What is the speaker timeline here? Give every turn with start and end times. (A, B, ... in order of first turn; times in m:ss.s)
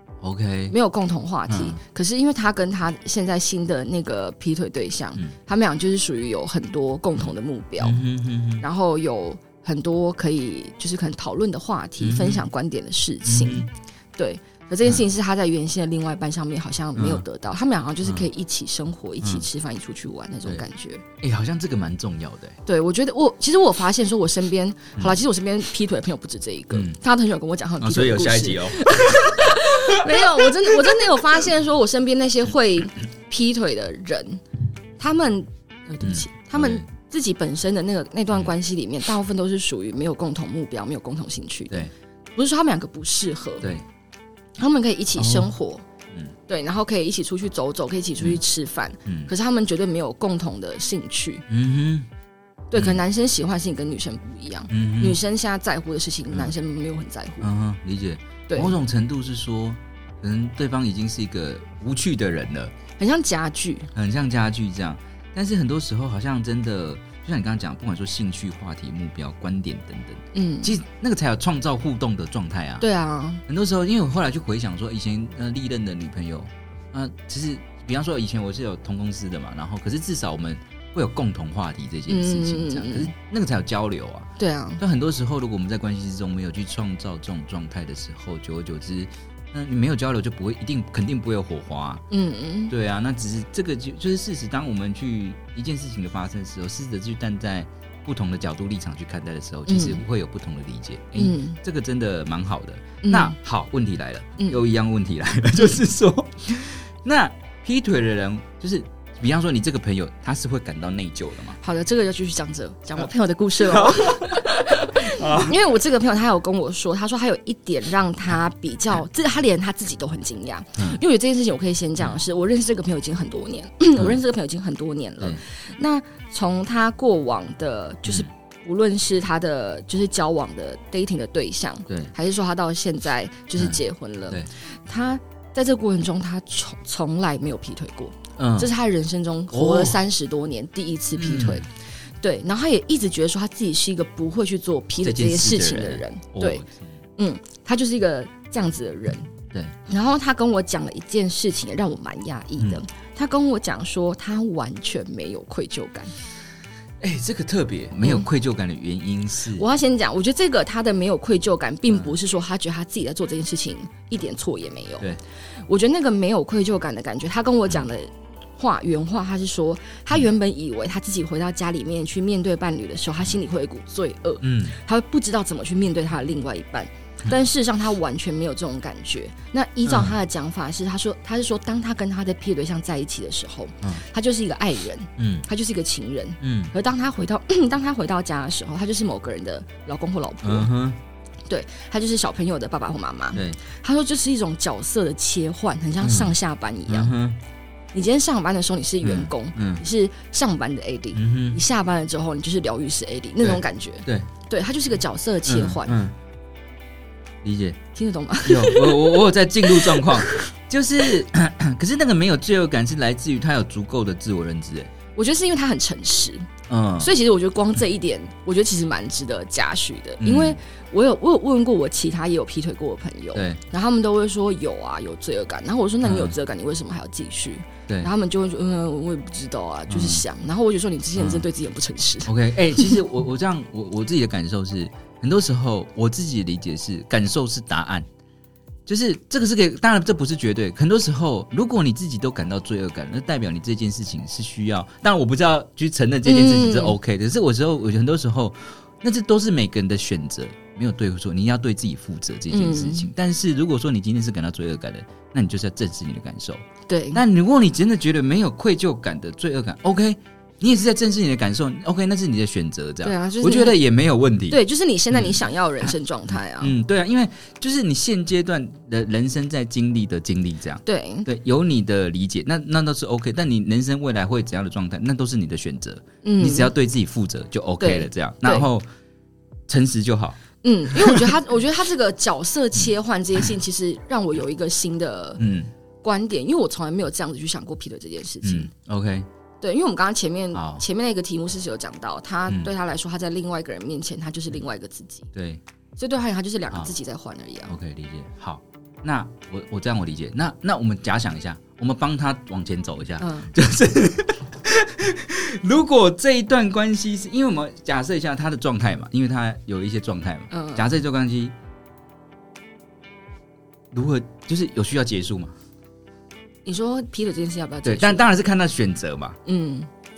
0:00.2-0:00.7 A
0:00.7-0:08.0 B
0:01.5-0:01.8 A
0:07.8-0:08.6 A
0:08.6-0:21.0 B
0:12.0-0:12.4 A
0:13.2-0:13.7 A
0:17.0-0:17.2 A
0:21.2-0:22.6 A
0:22.6-0:34.4 B
0:27.8-0:31.2 A
0:35.0-0:43.7 B
0:36.0-0:36.8 A
0:44.6-0:45.8 B
0:45.2-0:45.5 A
0:46.5-0:51.4 B
0:49.0-0:49.3 A
0:51.5-0:52.1 A
0:52.7-0:57.5 B
0:54.7-0:55.2 A
0:57.4-1:02.7 A
0:58.5-0:58.8 B
1:03.0-1:03.9 B
1:03.9-1:12.8 A
1:10.3-1:10.8 B
1:12.8-1:13.4 B
1:13.5-1:32.0 A
1:22.1-1:23.1 B
1:24.4-1:24.8 B
1:32.1-1:32.7 B
1:32.7-1:51.6 A
1:39.7-1:40.0 B
1:41.2-1:41.6 B
1:43.0-1:43.4 B
1:51.6-2:26.6 B
1:53.6-1:55.6 A
2:11.9-2:12.1 A
2:13.6-2:14.5 A
2:18.4-2:18.7 A
2:19.5-2:20.0 A
2:21.2-2:21.6 A
2:25.0-2:26.9 A
2:27.2-2:29.3 B
2:29.9-2:36.1 B
2:37.0-2:39.6 A
2:38.0-2:38.3 B
2:39.5-2:45.1 B
2:45.7-3:10.7 B
2:54.4-2:54.8 A
2:59.8-3:00.1 A
3:05.2-3:05.4 A
3:06.4-3:06.7 A
3:10.4-3:11.0 A
3:11.5-3:17.1 B
3:13.3-3:13.6 A
3:16.0-3:16.3 A
3:16.9-3:17.4 A
3:17.9-3:26.0 B
3:19.0-3:19.8 A
3:21.1-3:21.6 A
3:23.4-3:24.3 A
3:25.4-3:26.1 A
3:27.4-3:27.8 A
3:27.9-3:30.4 B
3:28.4-3:34.9 A
3:35.2-3:53.0 B
3:36.7-3:37.1 A
3:40.2-3:40.6 A
3:43.3-3:43.6 A
3:46.0-3:46.3 A
3:49.9-3:50.2 A
3:51.2-3:51.4 A
3:52.2-3:58.1 A
3:58.8-4:24.6 A
4:06.2-4:07.0 B
4:12.5-4:13.1 B
4:16.9-4:17.2 B
4:23.0-4:23.8 B
4:24.5-4:26.7 B
4:25.1-4:25.4 A
4:26.6-4:38.8 A
4:30.8-4:31.3 B
4:36.2-4:36.7 B
4:37.8-4:38.7 B
4:39.7-4:40.4 A
4:40.6-4:45.4 B
4:41.0-4:41.2 A
4:45.4-4:45.7 A
4:46.0-4:48.7 B
4:48.4-4:49.3 A
4:49.6-4:55.3 B
4:50.5-4:50.8 A
4:55.3-4:55.6 A
4:56.0-4:57.7 B
4:57.7-5:11.5 A
5:03.2-5:03.5 B
5:10.5-5:10.8 B
5:13.9-5:15.6 A
5:16.6-5:18.4 B
5:17.8-5:19.4 A
5:19.4-5:19.9 B